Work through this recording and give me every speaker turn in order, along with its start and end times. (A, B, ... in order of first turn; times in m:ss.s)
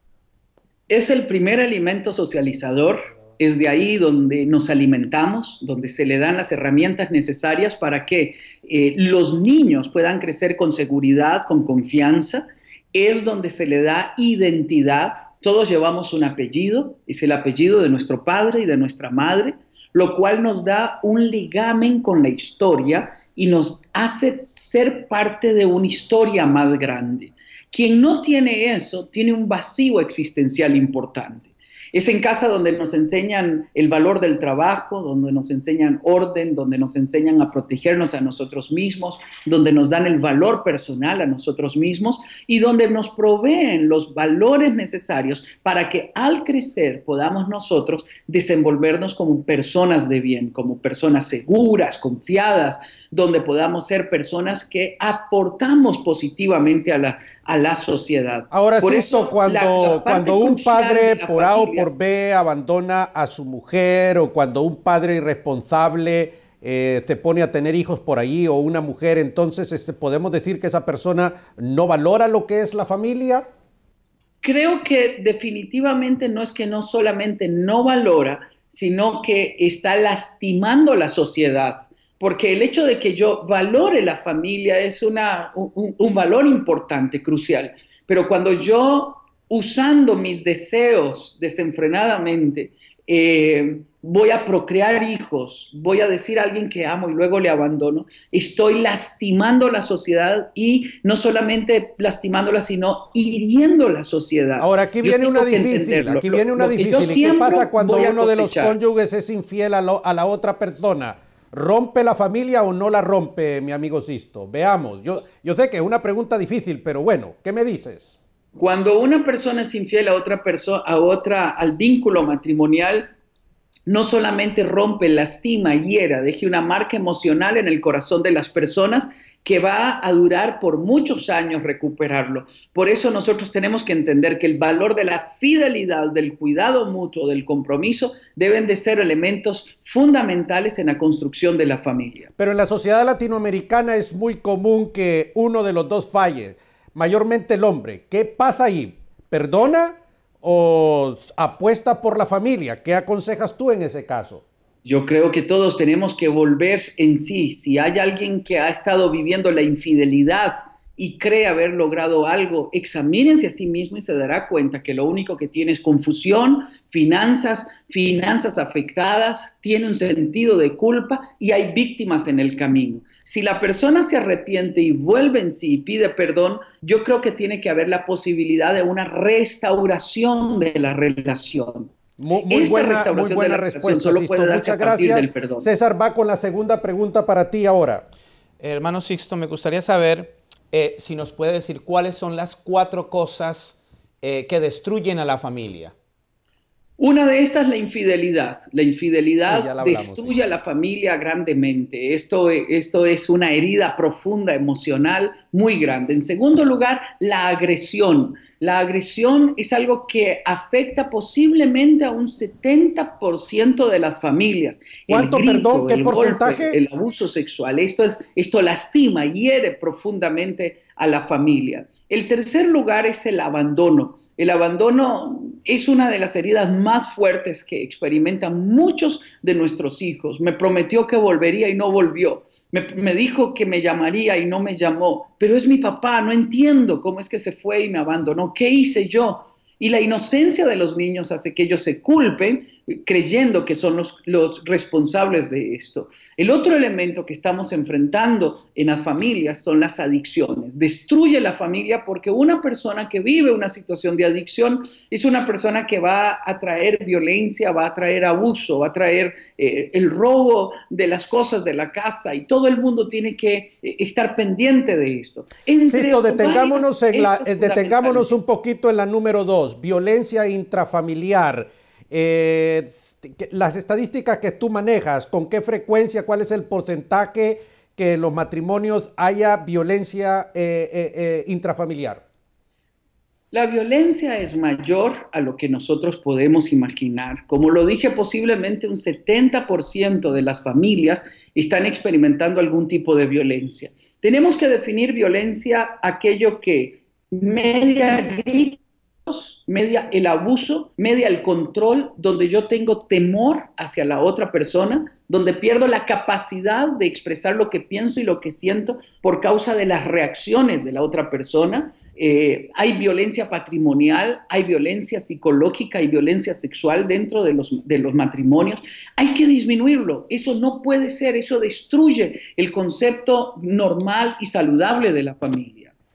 0:00.9-1:01.9 A
0:58.5-1:13.5 B
1:14.4-1:48.7 A
1:44.6-1:58.2 B
1:58.6-2:03.1 A
2:03.9-2:22.3 A
2:22.4-2:34.4 B
2:34.8-3:01.9 A
3:02.2-3:08.0 B
3:02.4-3:05.7 A
3:08.6-3:15.9 C
3:17.0-4:28.3 A
3:19.5-3:20.4 B
3:35.1-3:36.8 B
4:25.8-4:42.2 B
4:43.5-5:25.9 A